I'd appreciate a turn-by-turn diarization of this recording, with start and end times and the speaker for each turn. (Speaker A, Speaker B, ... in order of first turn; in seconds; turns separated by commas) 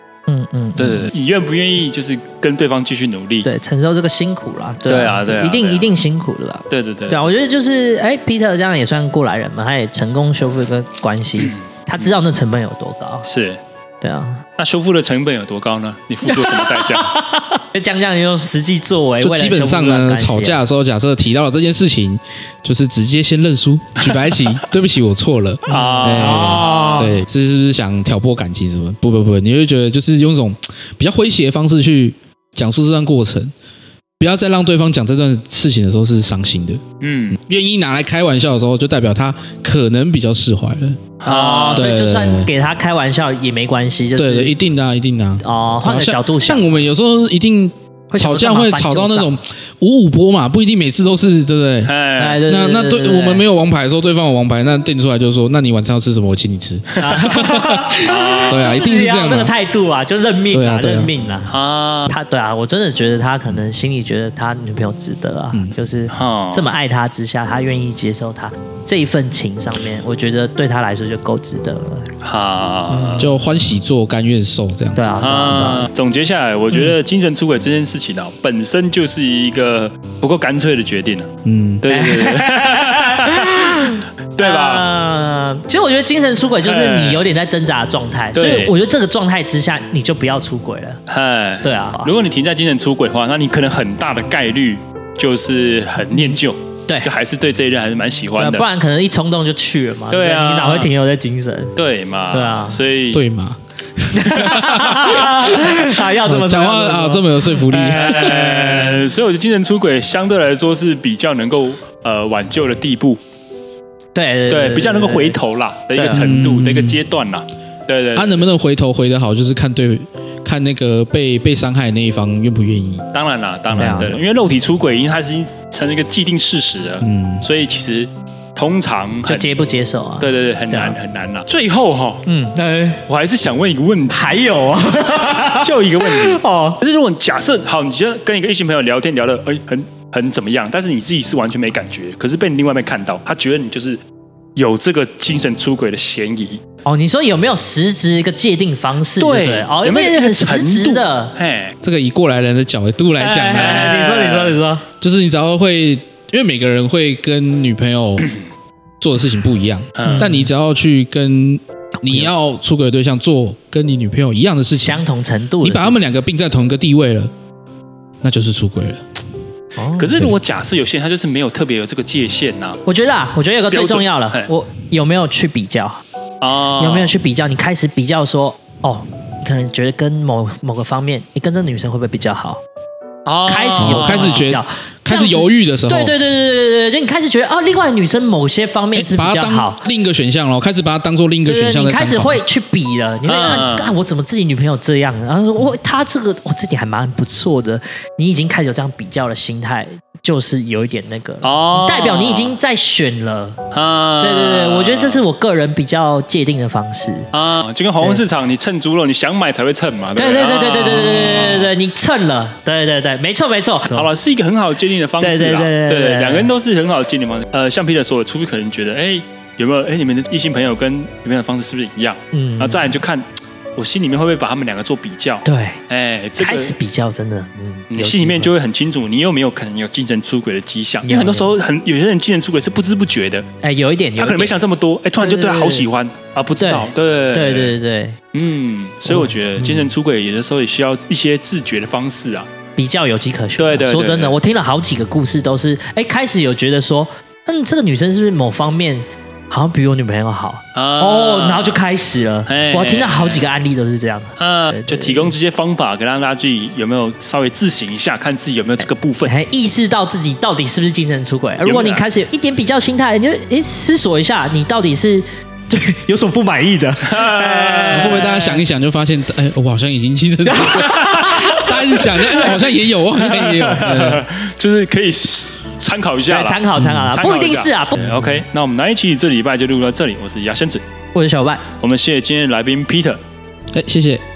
Speaker A: 0.3-1.1, Speaker B: 0.8-3.5, Speaker A: 3.4-13.2, Speaker B: 4.9-5.9, Speaker B: 6.7-7.3, Speaker B: 11.4-12.2, Speaker B: 13.2-13.6, Speaker A: 14.0-14.4, Speaker B: 14.6-17.1, Speaker A: 16.3-20.6, Speaker C: 19.2-33.5, Speaker A: 25.7-27.2, Speaker B: 25.7-27.0, Speaker C: 34.2-41.0, Speaker B: 37.0-37.4, Speaker B: 41.2-41.9, Speaker A: 41.2-44.5, Speaker C: 41.7-42.5, Speaker C: 44.1-59.5, Speaker A: 45.4-46.7, Speaker A: 48.1-49.3, Speaker B: 51.8-52.4, Speaker A: 52.2-53.4, Speaker A: 57.0-61.5, Speaker B: 58.1-58.6, Speaker C: 60.5-61.1, Speaker B: 61.5-62.1, Speaker A: 62.1-72.1, Speaker B: 66.1-66.7, Speaker B: 72.2-73.3, Speaker A: 72.9-73.3, Speaker C: 73.2-75.1, Speaker A: 75.0-75.9, Speaker B: 75.2-81.3, Speaker C: 81.4-81.8, Speaker B: 81.8-84.9, Speaker A: 81.9-91.0, Speaker B: 86.6-87.2, Speaker B: 88.3-88.7, Speaker B: 91.1-98.7, Speaker A: 91.6-92.1, Speaker A: 96.1-97.1, Speaker A: 98.4-101.7, Speaker B: 100.1-100.9, Speaker B: 101.8-103.2, Speaker A: 102.3-102.8, Speaker C: 103.1-108.3, Speaker A: 104.1-109.0, Speaker B: 107.7-113.2, Speaker A: 114.1-115.4, Speaker B: 114.5-118.4, Speaker A: 115.9-116.2, Speaker C: 116.1-117.0, Speaker C: 118.1-123.0, Speaker B: 123.1-129.5, Speaker C: 123.7-124.1, Speaker A: 123.8-124.2, Speaker C: 127.0-127.5, Speaker A: 129.2-131.0, Speaker B: 130.2-132.2, Speaker A: 132.2-133.0, Speaker B: 133.1-144.0, Speaker A: 134.1-136.8, Speaker B: 144.6-146.6, Speaker A: 146.8-151.3, Speaker B: 149.2-151.8, Speaker C: 151.8-153.8, Speaker A: 153.2-154.8, Speaker B: 153.4-154.6, Speaker C: 155.0-158.3, Speaker C: 159.0-165.0, Speaker B: 159.9-160.3, Speaker A: 160.0-160.5, Speaker A: 162.0-162.3, Speaker A: 164.8-166.0, Speaker C: 165.6-167.3, Speaker C: 168.2-169.0, Speaker A: 169.8-170.3, Speaker B: 170.0-172.8, Speaker A: 172.8-176.0, Speaker B: 173.5-174.5, Speaker B: 176.4-177.2, Speaker A: 176.8-182.6, Speaker B: 183.2-184.5, Speaker A: 183.4-189.8, Speaker C: 183.8-186.2, Speaker C: 188.9-192.4, Speaker A: 191.4-203.6, Speaker B: 193.2-193.9, Speaker B: 201.4-202.6, Speaker B: 203.7-205.2, Speaker A: 204.2-207.3, Speaker B: 207.3-211.7, Speaker A: 210.2-214.1, Speaker B: 213.9-223.2, Speaker A: 215.2-216.5, Speaker A: 222.3-223.0, Speaker B: 223.8-226.8, Speaker A: 225.4-225.8, Speaker A: 226.4-228.5, Speaker B: 227.9-233.5, Speaker A: 231.0-231.5, Speaker A: 233.6-234.6, Speaker B: 234.2-237.8, Speaker A: 235.2-235.8, Speaker A: 236.6-238.2, Speaker B: 238.3-242.5, Speaker A: 239.1-239.9, Speaker A: 242.8-255.3, Speaker B: 243.6-244.4, Speaker B: 250.7-251.8, Speaker B: 252.5-253.6, Speaker B: 254.4-259.3, Speaker A: 259.2-268.6, Speaker B: 261.6-262.0, Speaker B: 267.1-268.2, Speaker C: 267.9-274.2, Speaker A: 270.4-272.6, Speaker B: 273.4-280.8, Speaker A: 276.3-278.2, Speaker A: 281.1-281.6, Speaker B: 281.8-283.2, Speaker C: 283.7-284.2